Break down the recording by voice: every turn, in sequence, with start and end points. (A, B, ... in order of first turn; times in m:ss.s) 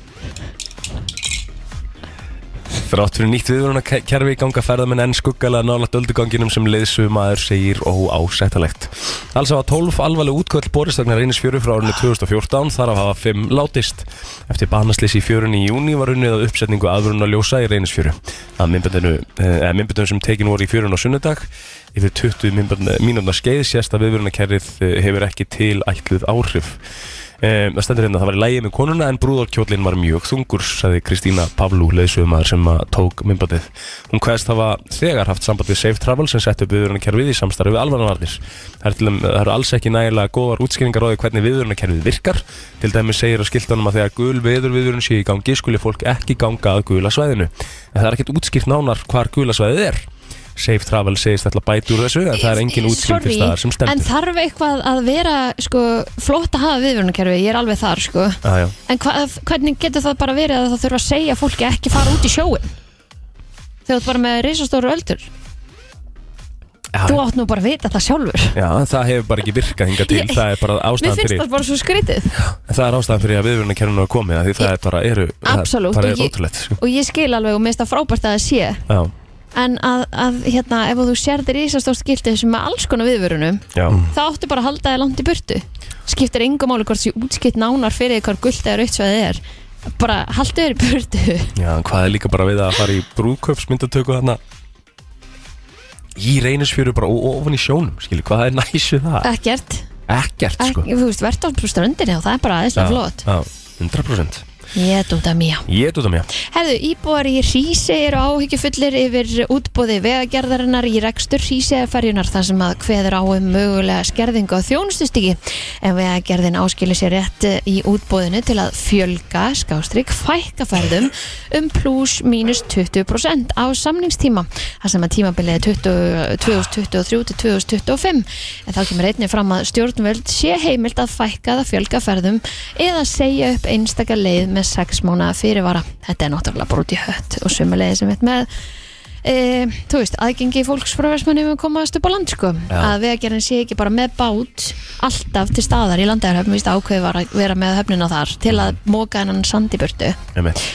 0:02.8-0:26.8 A
0:27.4-0:54.1 A
0:52.3-1:02.7 B
0:58.4-0:58.7 A
1:03.9-1:05.3 B
1:06.9-1:07.2 A
1:07.0-1:08.6 B
1:08.5-1:11.4 A
1:10.0-1:10.4 B
1:11.0-1:12.4 B
1:12.5-1:16.8 A
1:15.4-1:18.8 B
1:19.5-1:31.5 B
1:23.7-1:24.0 A
1:31.6-1:34.4 A
1:36.2-1:39.3 A
1:39.2-1:39.9 B
1:40.1-1:40.9 A
1:40.6-1:43.2 B
1:42.8-1:44.4 A
1:44.7-1:45.6 B
1:45.7-1:46.3 A
1:46.3-2:18.5 B
2:19.2-2:30.2 B